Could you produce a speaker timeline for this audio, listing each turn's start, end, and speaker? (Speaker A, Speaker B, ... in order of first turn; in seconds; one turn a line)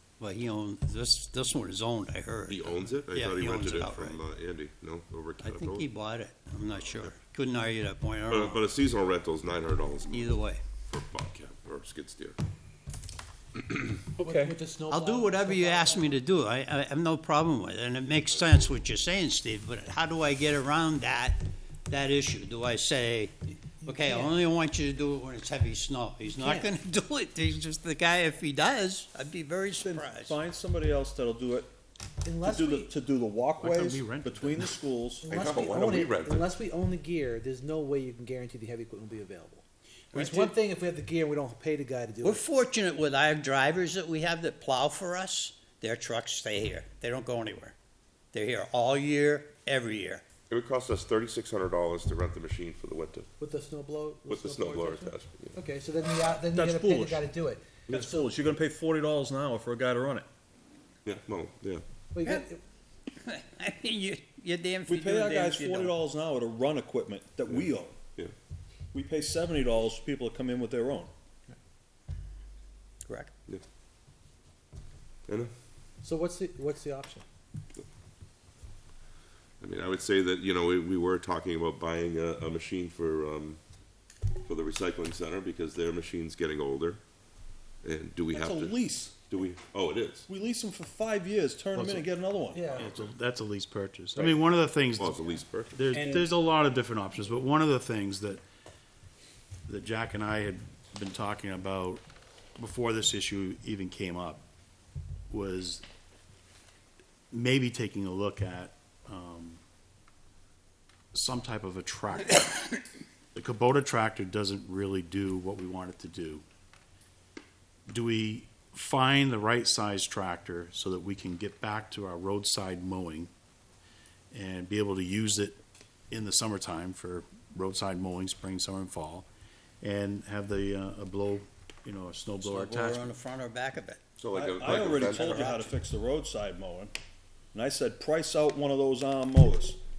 Speaker A: 0.2-4.2
Speaker B: 2.5-5.9
Speaker A: 5.4-8.6
Speaker B: 6.7-7.2
Speaker B: 8.3-12.4
Speaker A: 10.1-10.6
Speaker C: 14.2-16.2
Speaker A: 14.9-23.3
Speaker C: 23.8-24.4
Speaker A: 23.9-30.4
Speaker C: 26.2-26.7
Speaker D: 29.8-31.7
Speaker C: 32.2-32.9
Speaker D: 32.4-36.0
Speaker E: 33.6-34.8
Speaker C: 35.2-42.4
Speaker B: 35.3-36.5
Speaker A: 40.1-40.5
Speaker A: 42.2-47.8
Speaker A: 48.3-50.4
Speaker B: 50.4-53.3
Speaker C: 53.4-58.4
Speaker B: 54.3-55.6
Speaker D: 56.5-57.3
Speaker D: 57.9-60.3
Speaker B: 61.0-61.8
Speaker C: 62.1-62.6
Speaker A: 63.2-65.9
Speaker D: 64.9-68.0
Speaker B: 67.5-68.3
Speaker D: 68.9-71.1
Speaker A: 73.1-73.3
Speaker B: 75.3-75.5
Speaker C: 76.0-77.2
Speaker B: 79.6-83.6
Speaker B: 84.4-87.0
Speaker B: 87.8-88.8
Speaker D: 88.3-89.3
Speaker B: 89.3-90.3
Speaker D: 90.3-92.6
Speaker E: 91.7-92.1
Speaker C: 92.5-92.9
Speaker E: 92.7-98.4
Speaker B: 95.0-95.8
Speaker E: 99.7-102.0
Speaker E: 102.6-104.4
Speaker E: 105.3-105.8
Speaker E: 107.3-109.6
Speaker E: 111.1-112.7
Speaker E: 113.3-116.4
Speaker E: 117.9-123.3
Speaker E: 124.3-125.6
Speaker E: 126.1-129.3
Speaker E: 129.8-133.1
Speaker A: 132.4-134.1
Speaker B: 134.2-135.6
Speaker D: 134.3-136.9
Speaker D: 137.5-139.8